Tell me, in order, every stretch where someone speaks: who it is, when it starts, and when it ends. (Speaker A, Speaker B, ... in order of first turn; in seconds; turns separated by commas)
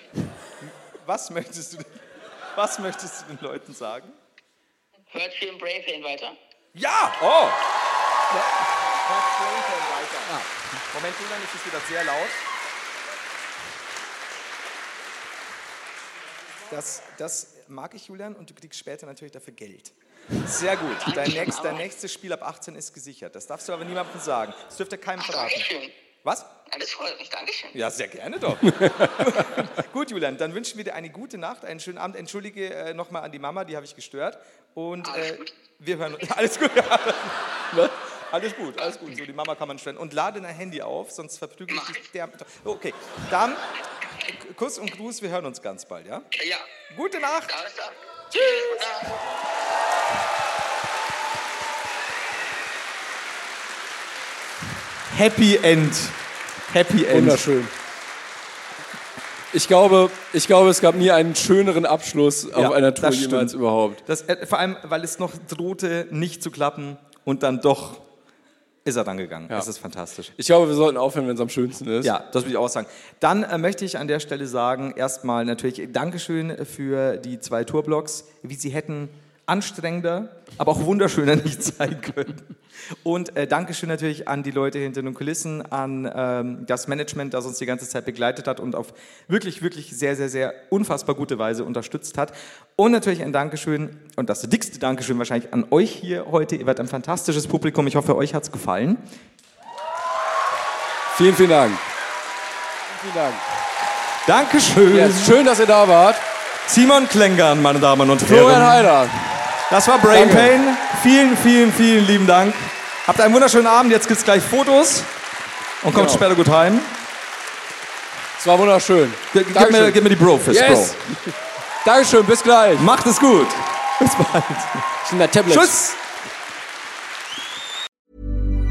Speaker A: 0.8-4.2, Speaker B: 5.1-6.3, Speaker A: 6.7-7.6, Speaker A: 8.3-12.4, Speaker A: 16.6-25.7, Speaker B: 21.0-21.8, Speaker B: 25.2-25.9, Speaker A: 26.2-26.5, Speaker B: 26.7-27.8, Speaker A: 27.7-46.3, Speaker C: 28.7-29.3, Speaker B: 35.0-35.5, Speaker B: 41.7-42.0, Speaker B: 46.3-46.7, Speaker A: 46.9-47.5, Speaker B: 47.5-49.1, Speaker A: 55.1-57.4, Speaker C: 57.1-57.7, Speaker C: 59.5-64.0, Speaker A: 62.5-68.0, Speaker A: 68.8-70.3, Speaker C: 70.4-72.1, Speaker A: 72.0-99.0, Speaker C: 101.1-101.8, Speaker C: 102.9-103.4, Speaker A: 104.2-105.4, Speaker C: 104.9-106.2, Speaker A: 106.7-108.9, Speaker C: 108.2-109.5, Speaker A: 109.7-115.1, Speaker C: 110.1-110.6, Speaker A: 115.8-117.0, Speaker C: 115.9-116.3, Speaker C: 118.4-122.9, Speaker A: 119.3-121.0, Speaker A: 122.8-126.0, Speaker C: 125.0-125.9